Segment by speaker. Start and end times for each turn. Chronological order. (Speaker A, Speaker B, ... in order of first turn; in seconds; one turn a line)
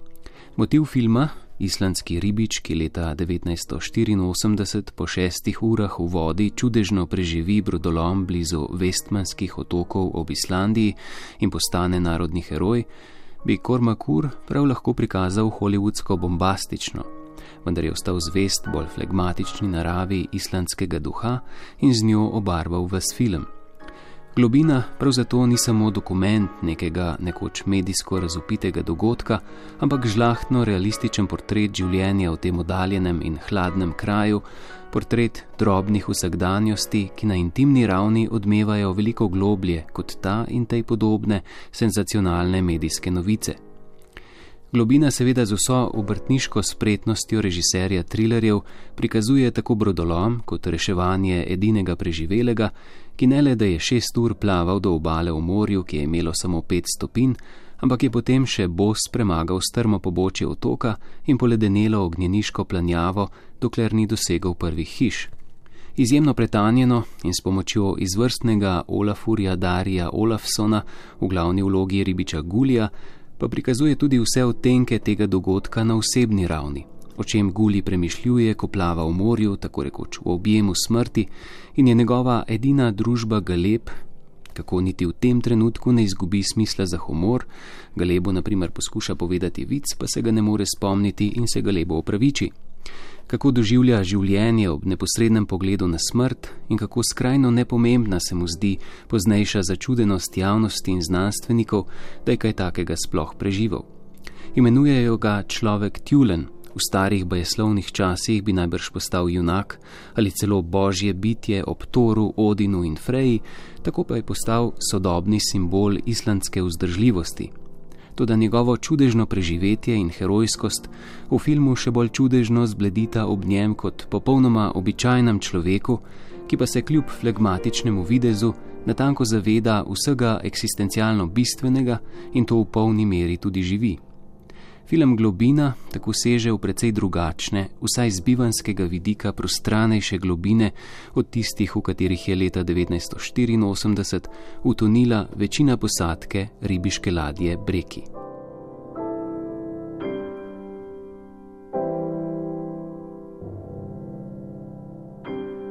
Speaker A: 0.6-12.9
Speaker A: 13.4-17.1
Speaker A: 17.6-23.5
Speaker A: 24.3-43.6
Speaker A: 44.7-65.3
Speaker A: 66.0-83.9
Speaker A: 84.5-92.5
Speaker A: 93.3-103.9
Speaker A: 104.5-117.5
Speaker A: 118.2-134.0
Speaker A: 134.9-148.1